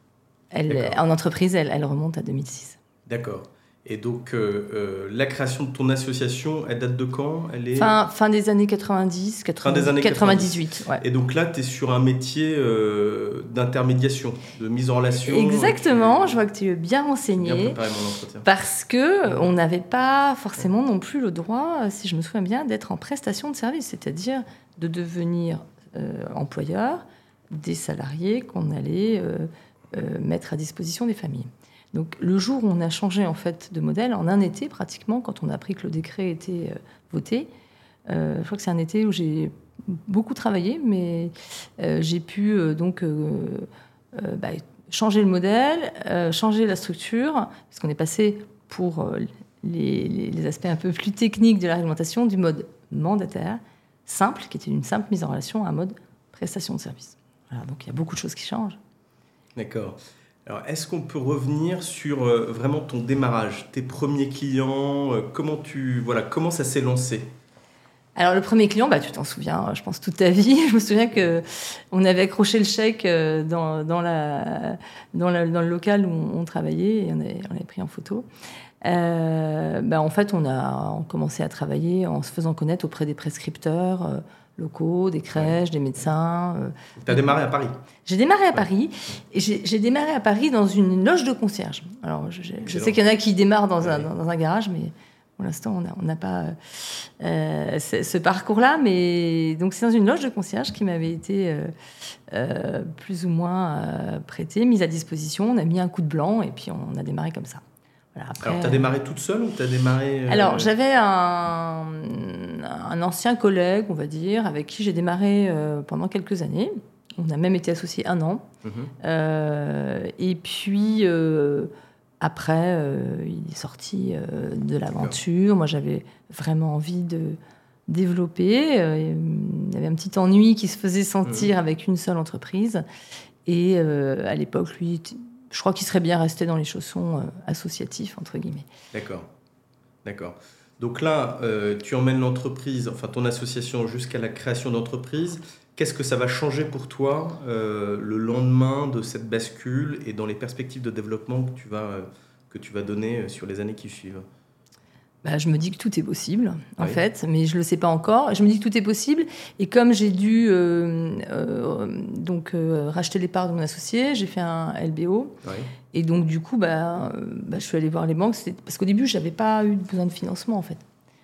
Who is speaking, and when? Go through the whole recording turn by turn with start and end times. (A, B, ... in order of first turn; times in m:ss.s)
0:00.5-0:02.8 A
0:00.7-0:01.0 B
0:03.1-0:07.9 B
0:07.8-0:11.0 A
0:09.6-0:16.4 B
0:15.3-0:17.8 A
0:17.3-0:18.5 B
0:18.4-0:37.5 A
0:38.1-0:58.8 A
0:59.6-1:07.3 B
1:08.2-1:18.3 A
1:18.8-1:27.3 A
1:27.0-1:27.7 B
1:28.1-1:41.7 A
1:32.6-1:33.0 B
1:33.8-1:34.1 B
1:42.3-1:47.6 A
1:48.1-1:48.9 A
1:48.4-1:50.7 B
1:50.3-1:58.4 A
1:58.6-1:58.9 B
1:59.0-2:12.8 A
2:11.2-2:11.5 B
2:13.5-2:18.7 A
2:18.9-2:19.3 B
2:20.0-2:34.2 B
2:35.2-2:45.4 A
2:45.4-2:45.7 B
2:45.9-2:50.8 A